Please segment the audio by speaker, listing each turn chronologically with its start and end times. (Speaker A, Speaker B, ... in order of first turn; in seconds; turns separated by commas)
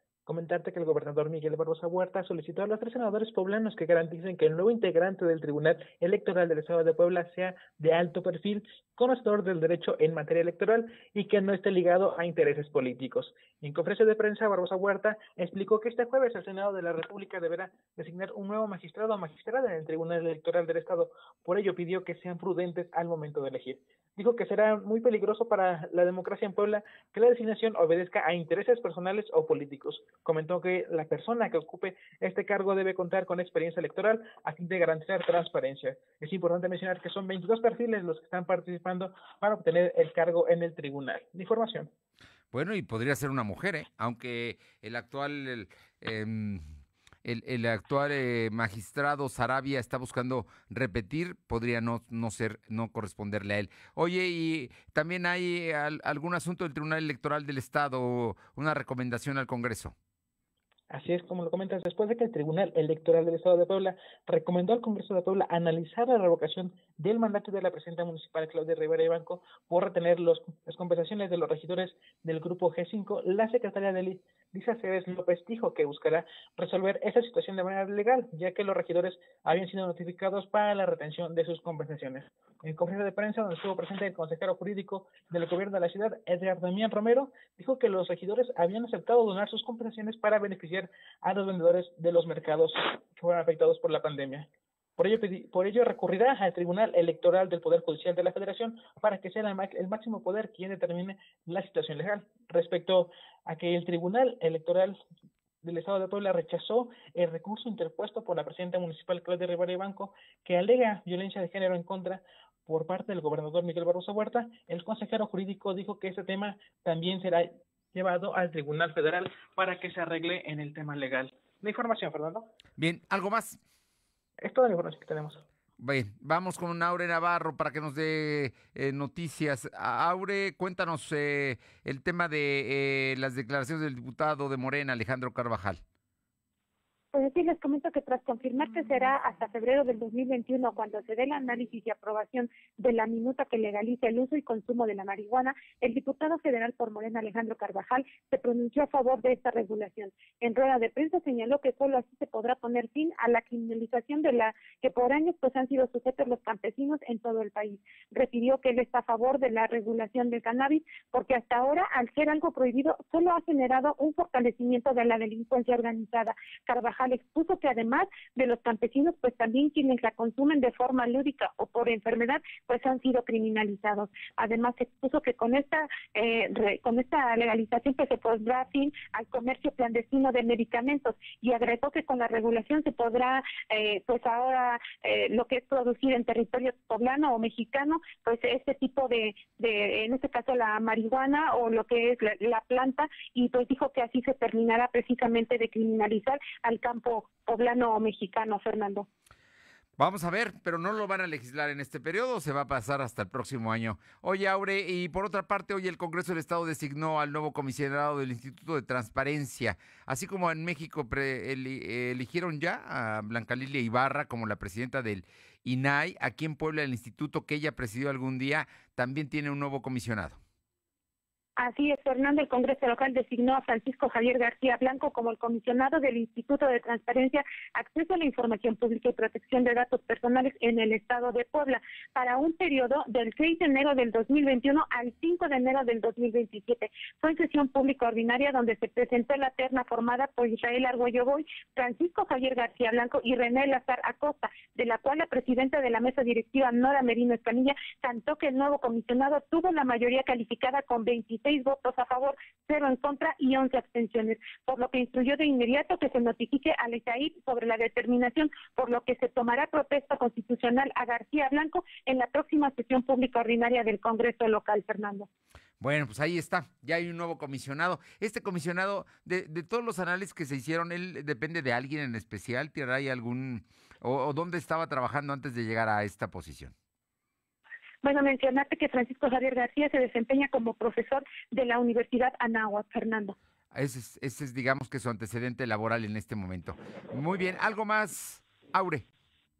Speaker A: 0.2-41.9, Speaker B: 42.5-46.7, Speaker B: 47.2-59.9, Speaker A: 60.9-105.0, Speaker A: 105.6-122.5, Speaker B: 122.8-123.6, Speaker A: 124.4-125.4, Speaker B: 125.8-135.8, Speaker C: 137.1-199.1, Speaker B: 200.0-220.4, Speaker C: 221.6-265.3, Speaker B: 265.8-276.7, Speaker C: 278.0-283.3, Speaker B: 283.7-289.0